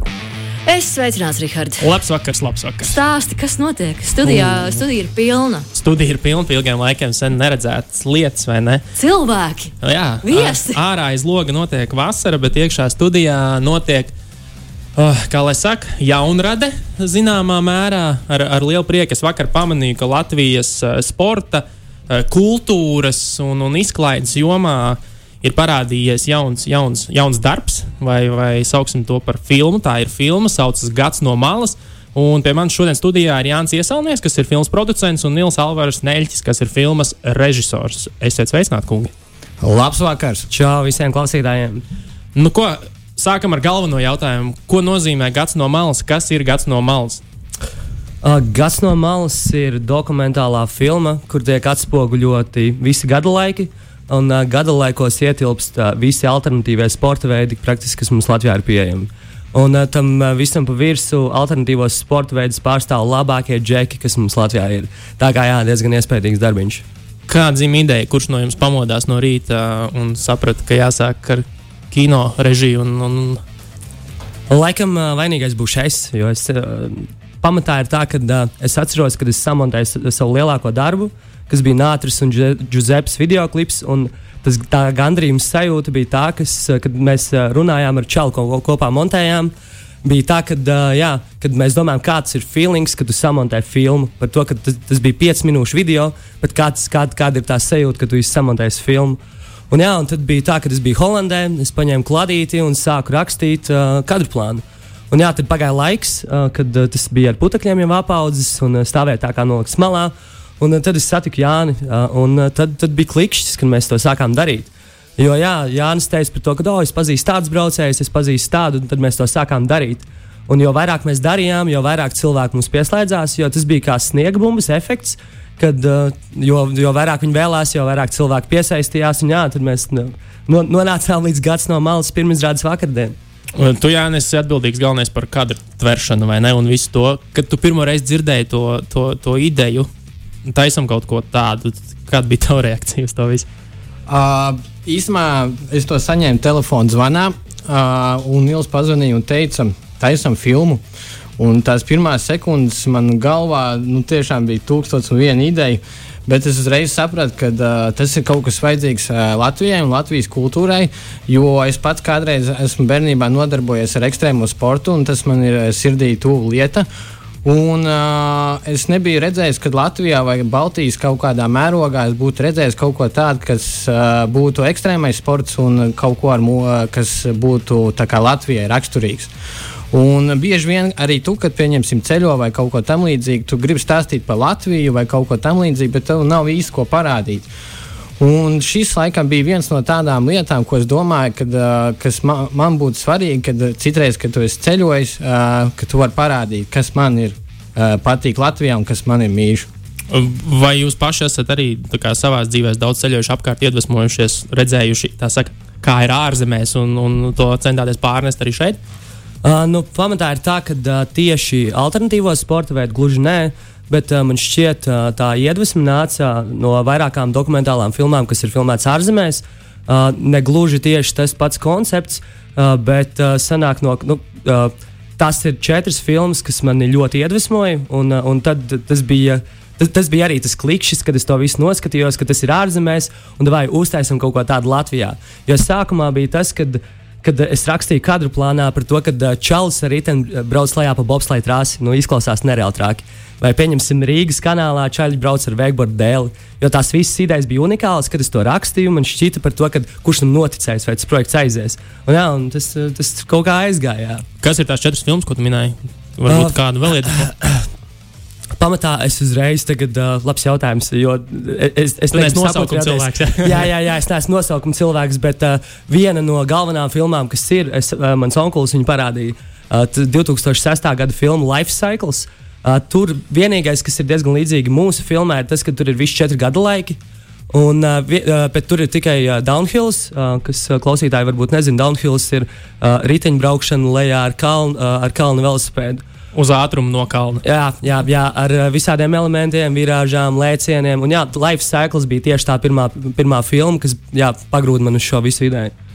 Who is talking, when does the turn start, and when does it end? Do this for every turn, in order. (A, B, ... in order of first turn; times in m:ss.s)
0:00.7-0:01.8 A
0:01.8-0:03.0 B
0:02.8-0:05.7 A
0:04.2-0:04.8 B
0:05.7-0:08.8 B
0:09.0-0:09.7 A
0:09.8-0:14.1 B
0:10.2-0:10.8 A
0:15.0-0:39.1 B
0:39.6-0:40.5 C
0:40.5-0:41.8 D
0:42.3-0:47.2 B
0:48.2-1:06.8 D
1:07.3-1:13.4 B
1:14.5-1:29.5 D
1:30.0-1:39.2 D
1:39.7-2:13.1 D
2:13.5-2:19.9 B
2:20.4-2:23.4 B
2:24.1-2:30.8 C
2:31.4-2:46.9 C
2:47.4-2:59.3 C
2:59.9-3:07.5 C
3:08.2-3:19.7 C
3:20.1-3:28.8 B
3:29.4-4:14.2 D
4:14.4-4:17.3 B
4:16.3-4:17.6 D
4:18.6-4:37.0 D
4:22.1-4:23.7 B
4:37.5-4:46.0 D
4:46.3-4:47.4 B
4:47.4-4:55.7 D